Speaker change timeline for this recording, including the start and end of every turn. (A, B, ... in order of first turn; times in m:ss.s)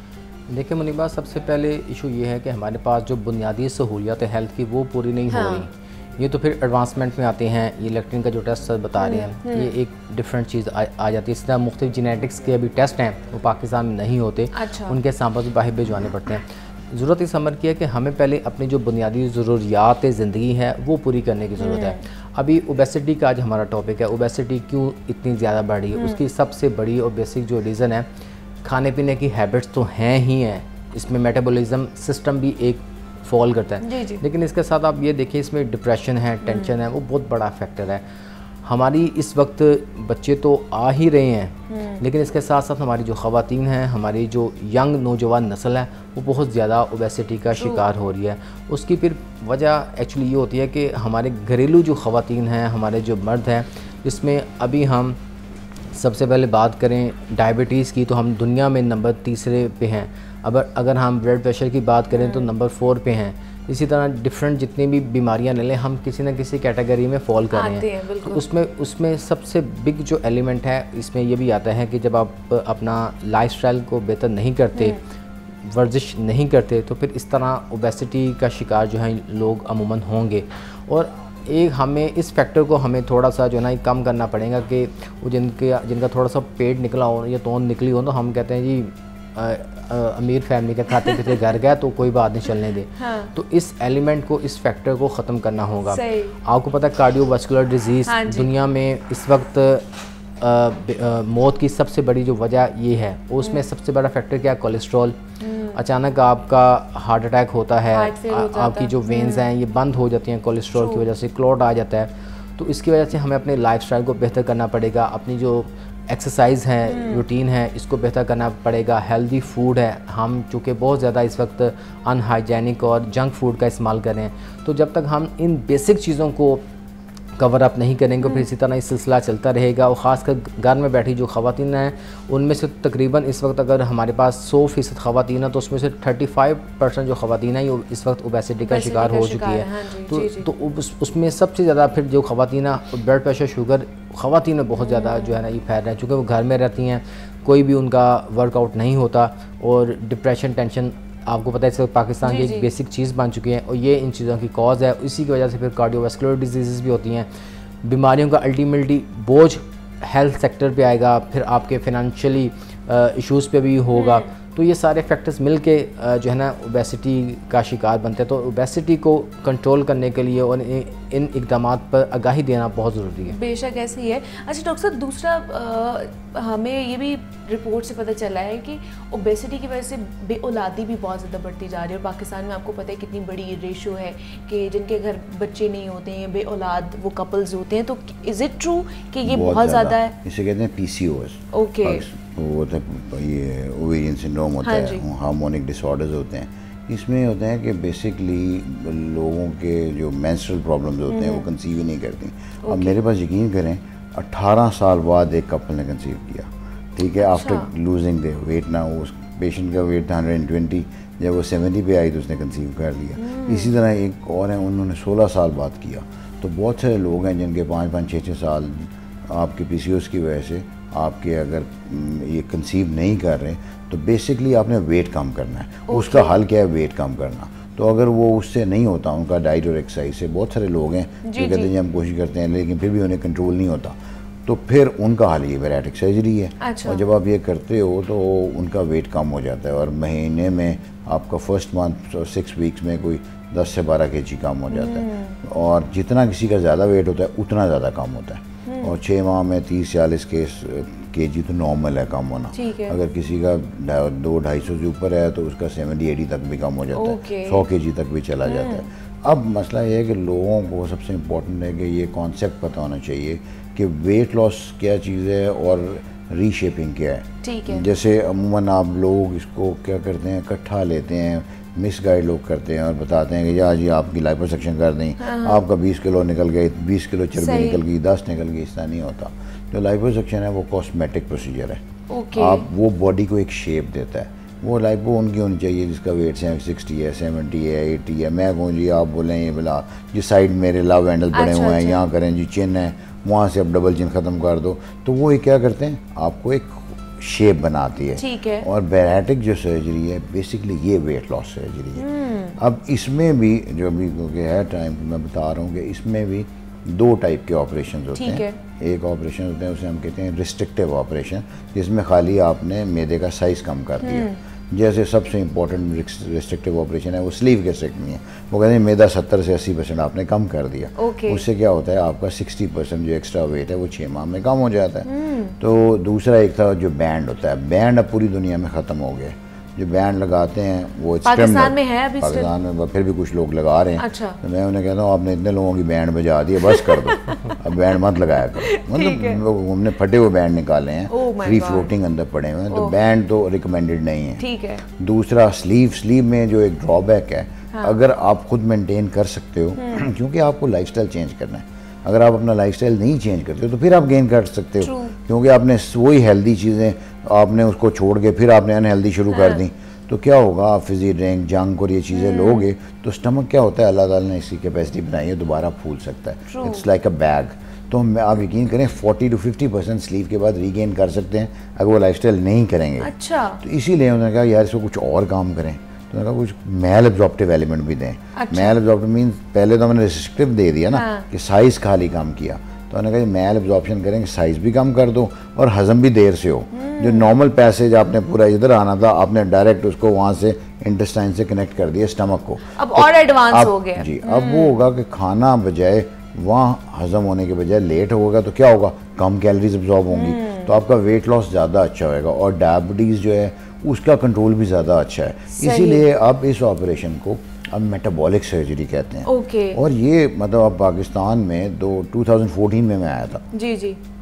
0:00.5-0:28.0 A
0:05.3-0:05.7 B
0:09.0-0:09.7 B
0:14.5-0:15.0 B
0:21.6-0:22.0 B
0:26.0-0:26.2 B
0:28.6-0:38.0 A
0:33.8-0:34.2 B
0:36.4-0:36.7 B
0:38.6-0:55.2 A
0:41.7-0:42.0 B
0:47.6-0:47.8 B
0:55.9-1:15.0 A
1:02.1-1:02.5 B
1:07.5-1:08.4 B
1:15.6-1:39.9 A
1:33.0-1:33.3 B
1:35.9-1:36.4 B
1:38.1-1:38.5 B
1:40.4-1:45.1 A
1:45.4-1:45.8 B
1:45.7-2:06.6 A
1:47.9-1:49.4 B
1:50.8-1:51.0 B
1:56.9-1:57.2 B
2:07.4-2:37.3 A
2:18.6-2:20.5 B
2:24.8-2:25.4 B
2:32.2-2:32.7 B
2:37.8-2:53.3 A
2:43.9-2:44.3 B
2:53.3-3:10.1 B
3:09.2-4:41.8 C
3:11.5-3:12.0 B
3:14.6-3:15.0 B
3:21.1-3:21.4 B
3:22.6-3:22.9 B
3:27.2-3:27.7 B
3:33.2-3:33.7 B
3:45.9-3:46.3 B
3:51.2-3:51.7 B
3:56.6-3:57.0 B
4:04.7-4:05.4 B
4:08.6-4:09.0 B
4:12.5-4:13.0 B
4:16.9-4:17.6 B
4:18.4-4:18.8 B
4:27.4-4:27.9 B
4:35.2-4:35.6 B
4:37.4-4:37.8 B
4:42.1-4:42.6 B
4:42.3-5:02.0 C
4:51.3-4:52.0 B
4:58.2-4:58.6 B
5:02.0-5:02.6 B
5:02.6-5:25.1 C
5:08.2-5:08.6 B
5:14.0-5:14.4 B
5:21.0-5:21.4 B
5:25.0-5:25.6 B
5:25.6-6:53.4 C
5:31.2-5:32.5 B
5:34.0-5:34.4 B
5:36.6-5:37.5 B
5:38.6-5:39.4 B
5:41.1-5:41.9 B
5:44.4-5:44.8 B
5:49.8-5:50.1 B
5:54.8-5:55.1 B
5:59.3-5:59.6 B
6:02.1-6:02.6 B
6:06.5-6:06.8 B
6:13.0-6:13.6 B
6:18.4-6:18.7 B
6:20.9-6:21.3 B
6:26.7-6:27.3 B
6:32.7-6:34.8 B
6:40.1-6:40.7 B
6:45.6-6:46.0 B
6:49.2-6:49.8 B
6:53.5-6:54.0 B